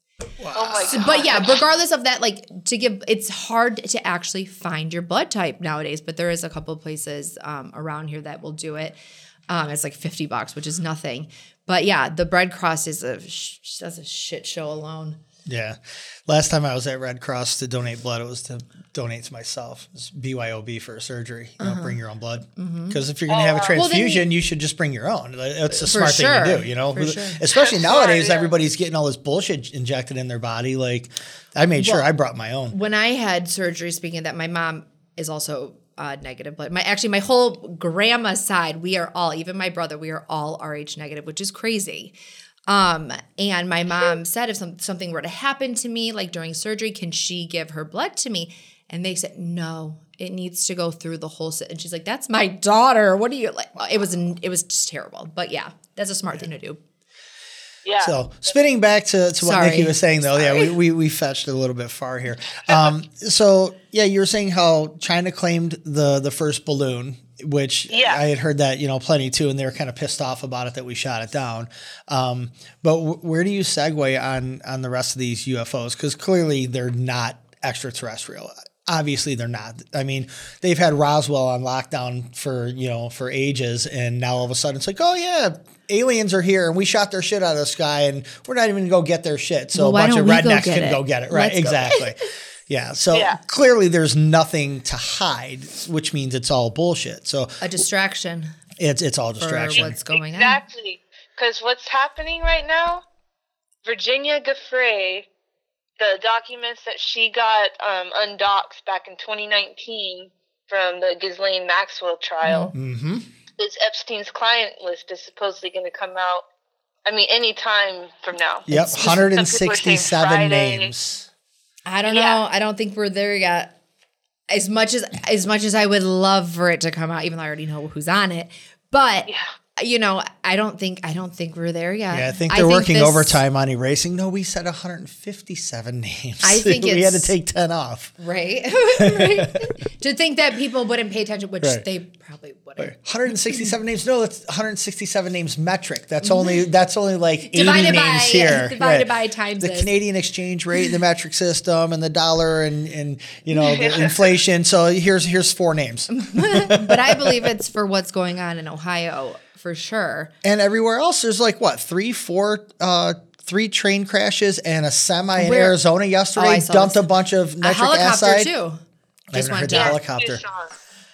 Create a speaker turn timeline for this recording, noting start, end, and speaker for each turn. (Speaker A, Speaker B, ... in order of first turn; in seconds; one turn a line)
Speaker A: 0.4-1.2
Speaker B: 0.5-1.6
Speaker C: 0.8-9.0
Speaker C: 9.5-15.2
Speaker A: 15.5-32.8
Speaker C: 21.6-22.0
Speaker C: 22.6-23.0
Speaker B: 23.3-23.8
Speaker C: 23.8-24.3
Speaker C: 25.7-27.4
Speaker B: 27.6-28.5
Speaker C: 31.8-32.1
Speaker C: 32.7-42.1
Speaker C: 42.7-56.8
Speaker B: 57.9-58.5
Speaker A: 58.0-97.7
Speaker C: 59.4-60.7
Speaker B: 67.9-68.2
Speaker C: 89.8-92.0
Speaker B: 93.1-93.4
Speaker C: 97.6-98.5
Speaker A: 98.8-100.0
Speaker C: 99.4-100.6
Speaker B: 99.8-103.0
Speaker B: 103.8-105.3
Speaker B: 106.0-112.8
Speaker C: 112.5-112.7
Speaker A: 112.7-113.3
Speaker B: 113.6-116.5
Speaker B: 117.1-120.9
Speaker A: 118.7-121.3
Speaker C: 118.7-119.1
Speaker C: 121.9-123.7
Speaker B: 122.1-122.4
Speaker C: 124.5-133.4
Speaker A: 132.1-138.1
Speaker C: 136.4-137.3
Speaker C: 138.2-142.9
Speaker A: 139.0-139.5
Speaker A: 142.8-157.4
Speaker C: 146.2-146.5
Speaker C: 147.5-149.9
Speaker B: 153.7-154.2
Speaker C: 156.1-160.3
Speaker A: 160.4-168.5
Speaker C: 165.4-165.8
Speaker C: 166.4-167.1
Speaker C: 167.6-168.8
Speaker A: 169.3-170.4
Speaker C: 169.3-170.0
Speaker B: 169.7-170.7